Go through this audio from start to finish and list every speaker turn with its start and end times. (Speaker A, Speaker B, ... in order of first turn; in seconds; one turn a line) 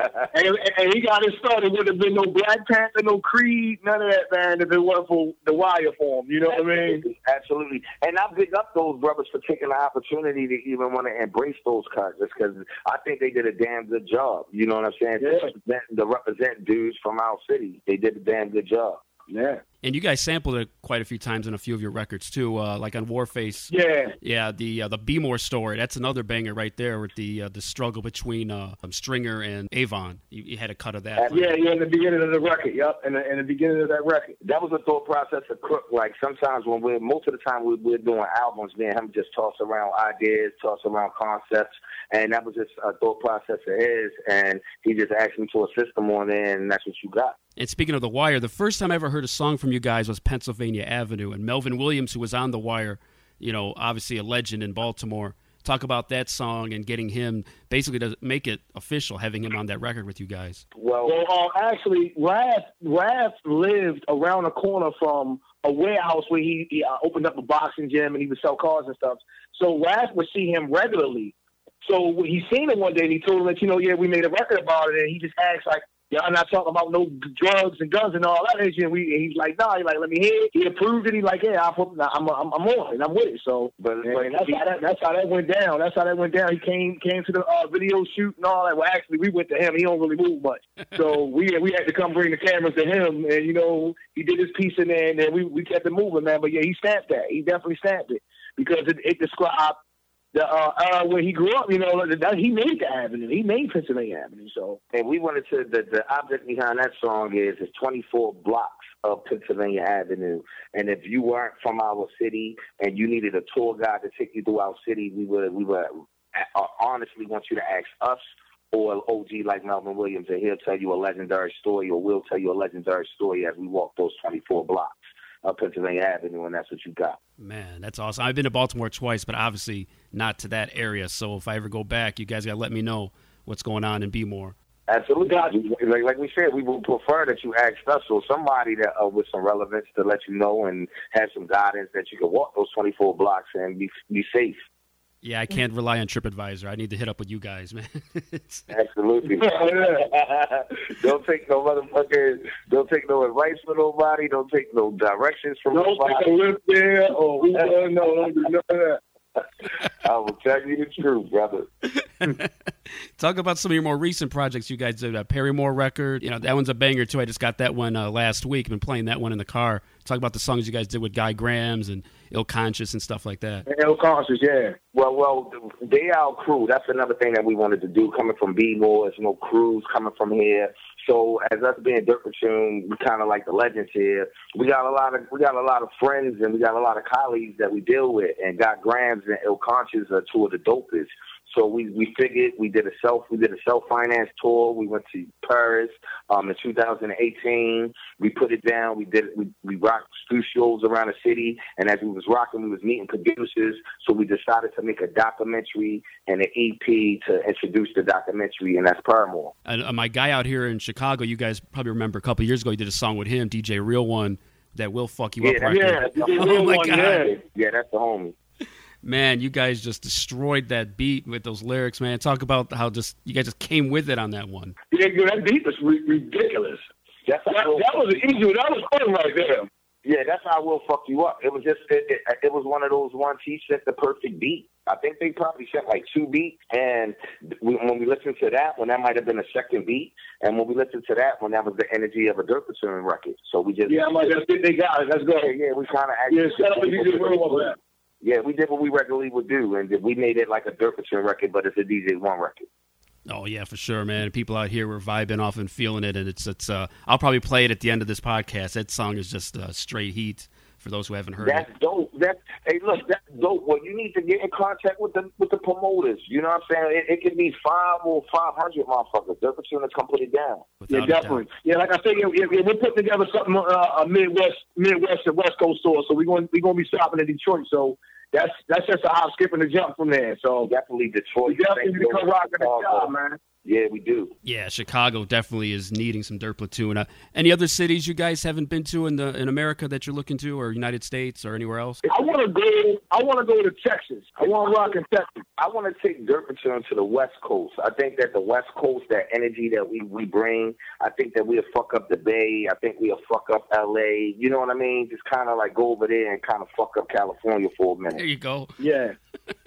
Speaker A: 0.2-7.0
Speaker B: 6.6-19.0
Speaker A: 15.2-15.5
Speaker A: 19.3-19.6
Speaker C: 19.8-31.5
Speaker A: 23.7-24.1
Speaker A: 31.3-34.4
Speaker B: 34.4-47.4
Speaker C: 47.6-60.6
Speaker B: 60.8-61.2
Speaker A: 61.0-99.8
Speaker B: 83.8-84.6
Speaker A: 100.3-104.8
Speaker B: 104.9-127.2
Speaker C: 127.4-134.6
Speaker B: 134.9-144.6
Speaker A: 135.2-135.5
Speaker C: 145.2-148.7
Speaker B: 148.7-156.3
Speaker A: 149.3-150.1
Speaker A: 155.7-159.0
Speaker B: 157.5-157.8
Speaker B: 160.0-161.7
Speaker C: 162.0-162.5
Speaker C: 163.2-173.7
Speaker A: 173.7-174.8
Speaker B: 174.9-209.6
Speaker C: 209.7-217.3
Speaker B: 215.4-216.6
Speaker A: 215.7-217.4
Speaker B: 217.4-218.3
Speaker C: 219.0-224.8
Speaker A: 224.9-226.8
Speaker B: 227.3-228.0
Speaker A: 227.5-229.7
Speaker B: 230.0-244.3
Speaker A: 243.9-245.5
Speaker B: 245.4-252.7
Speaker A: 246.3-247.8
Speaker C: 253.3-261.7
Speaker B: 261.4-270.7
Speaker C: 270.8-271.4
Speaker A: 270.9-280.7
Speaker B: 280.6-284.3
Speaker A: 281.5-283.4
Speaker C: 284.4-292.0
Speaker A: 292.1-295.4
Speaker B: 295.6-308.2
Speaker C: 308.1-308.7
Speaker A: 308.8-309.2